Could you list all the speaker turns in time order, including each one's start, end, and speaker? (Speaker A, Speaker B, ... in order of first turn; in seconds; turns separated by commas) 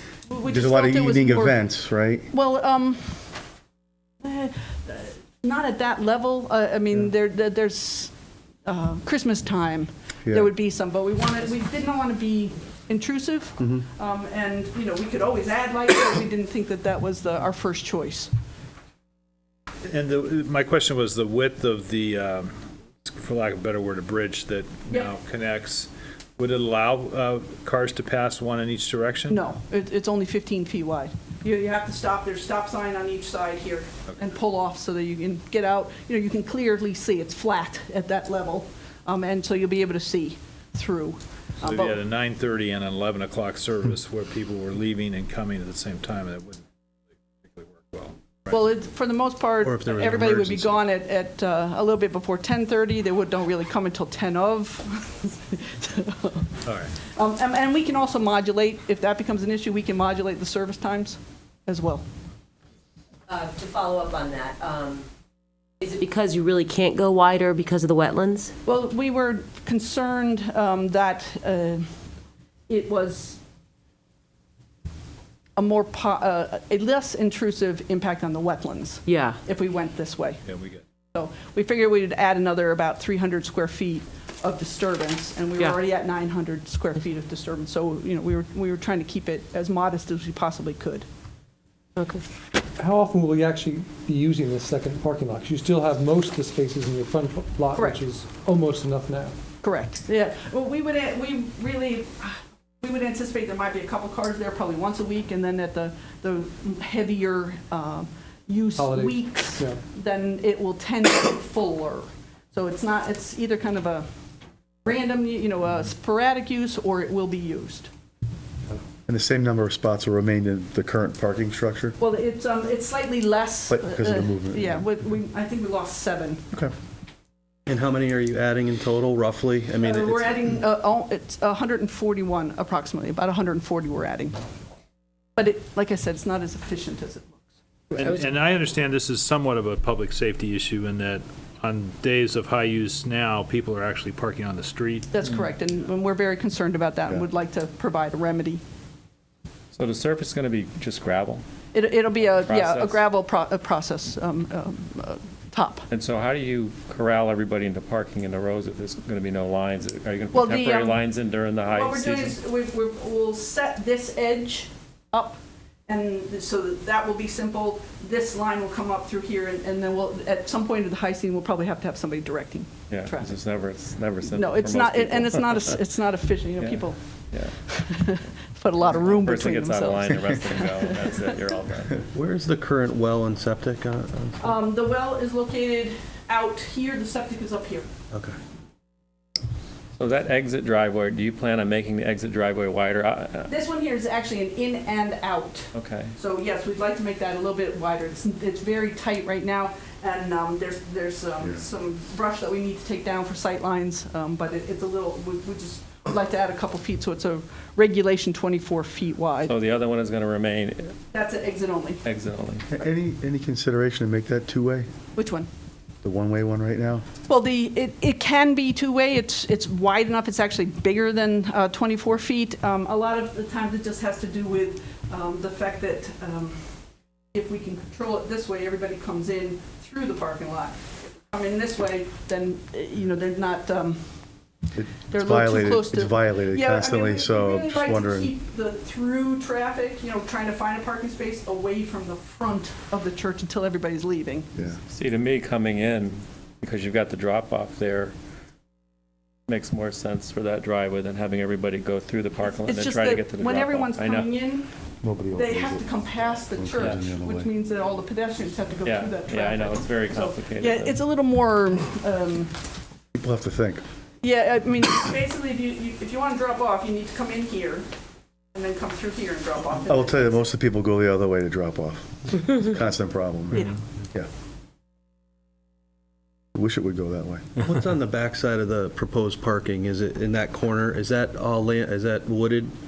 Speaker A: 0.3-1.6, Speaker B: 0.4-2.3, Speaker A: 2.3-3.4, Speaker A: 4.2-8.1, Speaker A: 8.7-18.3, Speaker B: 10.2-10.5, Speaker C: 19.8-22.5, Speaker C: 23.0-29.5, Speaker A: 29.3-42.0, Speaker C: 41.6-46.6, Speaker C: 47.4-48.6, Speaker A: 48.5-62.0, Speaker D: 49.6-50.8, Speaker C: 56.6-56.9, Speaker E: 63.3-65.0, Speaker E: 65.8-68.5, Speaker A: 68.7-71.9, Speaker A: 72.7-73.4, Speaker A: 75.6-80.4, Speaker E: 79.1-79.4, Speaker C: 80.4-80.8, Speaker A: 81.1-91.0, Speaker E: 92.0-92.2, Speaker F: 92.8-99.3, Speaker A: 97.7-98.0, Speaker A: 99.6-114.0, Speaker F: 108.8-109.8, Speaker A: 114.8-117.9, Speaker B: 119.1-122.0, Speaker A: 122.0-126.5, Speaker B: 123.7-124.9, Speaker D: 127.7-130.6, Speaker A: 129.8-134.4, Speaker A: 135.3-137.5, Speaker C: 137.9-145.1, Speaker A: 145.1-148.6, Speaker G: 149.7-151.4, Speaker A: 151.7-155.9, Speaker G: 152.3-153.0, Speaker G: 155.9-162.3, Speaker A: 160.3-161.0, Speaker A: 161.7-173.3, Speaker G: 172.9-175.7, Speaker A: 174.3-177.0, Speaker G: 176.6-177.5, Speaker A: 177.7-181.3, Speaker G: 178.8-182.1, Speaker D: 182.1-184.5, Speaker A: 184.4-187.9, Speaker D: 188.1-188.4, Speaker G: 190.0-193.5, Speaker A: 193.5-209.5, Speaker G: 195.7-196.1, Speaker G: 209.4-210.9, Speaker A: 211.1-212.0, Speaker G: 212.0-212.7, Speaker B: 212.7-214.9, Speaker A: 215.2-215.5, Speaker B: 216.0-217.0, Speaker A: 217.3-226.6, Speaker A: 227.3-234.0, Speaker B: 234.7-238.3, Speaker A: 235.1-244.5, Speaker G: 244.9-248.1, Speaker G: 249.5-254.3, Speaker A: 252.5-254.7, Speaker B: 255.0-257.5, Speaker A: 255.3-262.6, Speaker G: 258.8-261.0, Speaker B: 263.1-263.8, Speaker A: 264.2-267.9, Speaker A: 268.5-270.5, Speaker B: 269.9-274.3, Speaker B: 276.5-277.5, Speaker D: 277.6-282.7